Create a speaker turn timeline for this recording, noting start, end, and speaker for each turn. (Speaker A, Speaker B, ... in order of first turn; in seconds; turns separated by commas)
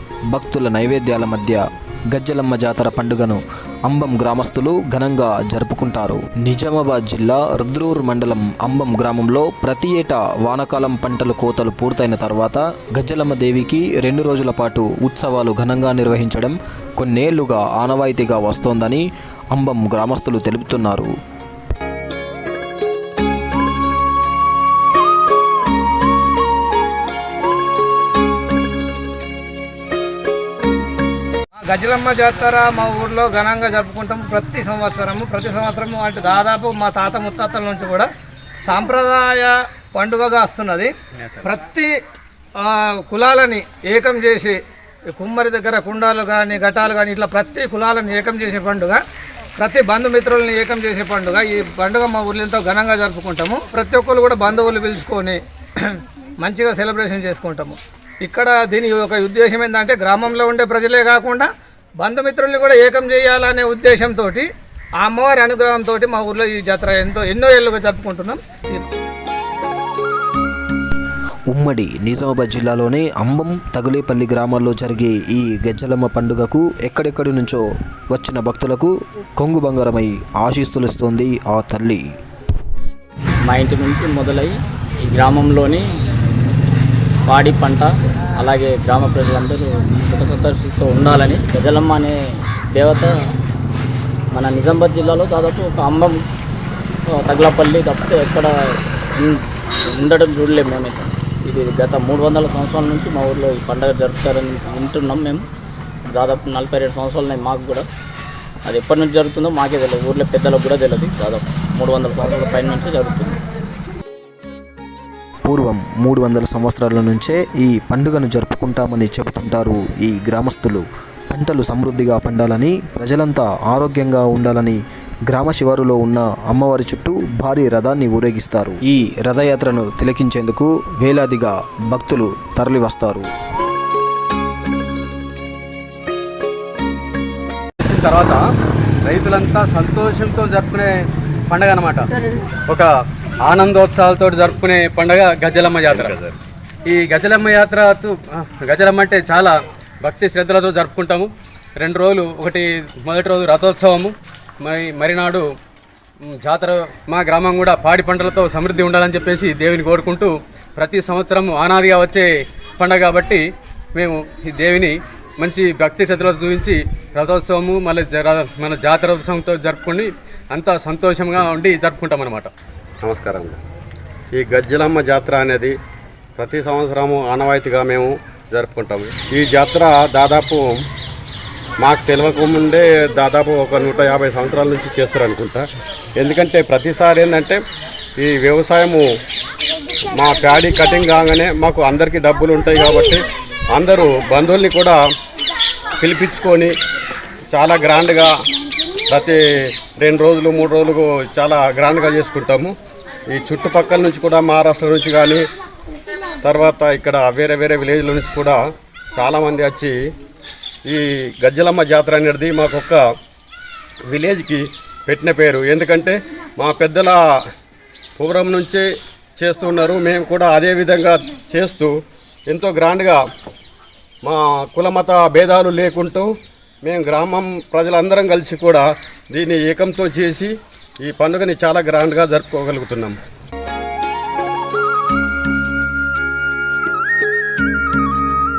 Speaker A: 0.3-21.1, Speaker B: 31.6-38.1, Speaker B: 38.6-40.9, Speaker B: 41.4-41.9, Speaker B: 42.6-44.6, Speaker B: 45.1-49.0, Speaker B: 49.6-61.5, Speaker B: 62.0-64.5, Speaker B: 65.0-68.9, Speaker A: 71.5-82.0, Speaker C: 83.4-85.8, Speaker C: 87.3-93.2, Speaker C: 94.3-96.2, Speaker C: 97.1-105.5, Speaker C: 106.1-107.9, Speaker C: 108.7-113.4, Speaker A: 115.5-133.3, Speaker D: 137.8-138.4, Speaker D: 139.1-140.9, Speaker D: 141.5-142.1, Speaker D: 143.4-146.2, Speaker E: 145.9-146.3, Speaker D: 146.9-155.4, Speaker D: 156.2-162.3, Speaker D: 162.8-163.4, Speaker D: 163.9-172.5, Speaker E: 173.0-173.6, Speaker E: 174.3-175.7, Speaker E: 176.4-180.7, Speaker E: 181.8-185.6, Speaker E: 186.2-187.6, Speaker E: 188.2-189.0, Speaker E: 190.1-195.0, Speaker E: 196.0-196.7, Speaker E: 197.5-198.3, Speaker E: 199.1-199.4, Speaker E: 200.0-202.7, Speaker E: 203.3-205.4, Speaker E: 206.4-208.6, Speaker E: 209.2-209.9, Speaker E: 210.9-213.0, Speaker E: 214.1-217.2, Speaker E: 218.2-218.8, Speaker E: 219.4-221.9, Speaker E: 222.5-223.2, Speaker E: 224.2-226.3, Speaker E: 226.8-230.5, Speaker E: 231.0-233.2